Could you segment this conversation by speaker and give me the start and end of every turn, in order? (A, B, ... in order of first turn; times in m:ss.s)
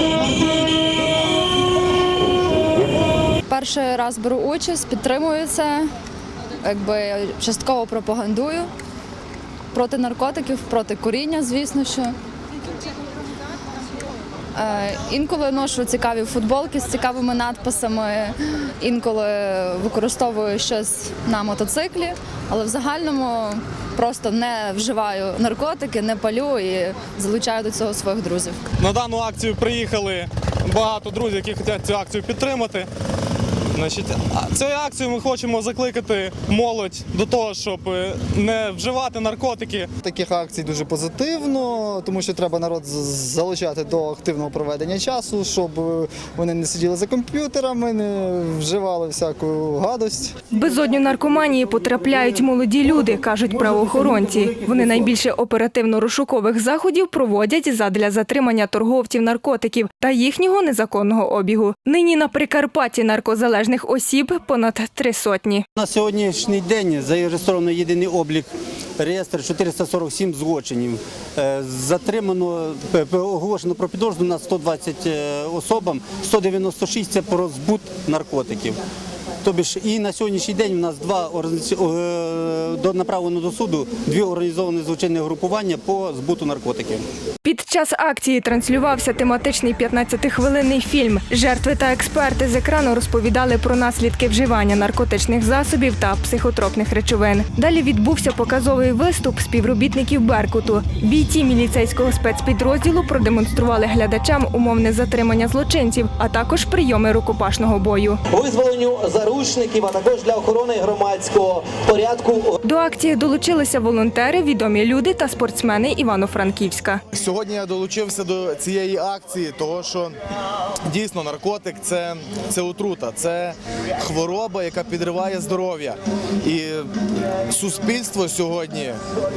0:03.5-0:05.9 A
0:06.6-0:08.7 A
0:09.7-0:12.2 A
0:14.6-0:28.6 A
0:28.8-0:32.9 B
0:33.7-0:39.9 B
0:40.0-0:50.4 C
0:50.5-1:05.6 D
1:05.8-1:18.8 E
1:19.4-1:27.0 E
1:27.4-1:48.2 D
1:48.3-1:52.6 F
1:52.6-1:57.0 D
1:57.1-2:00.1 G
2:00.9-2:06.9 G
2:07.5-2:09.0 G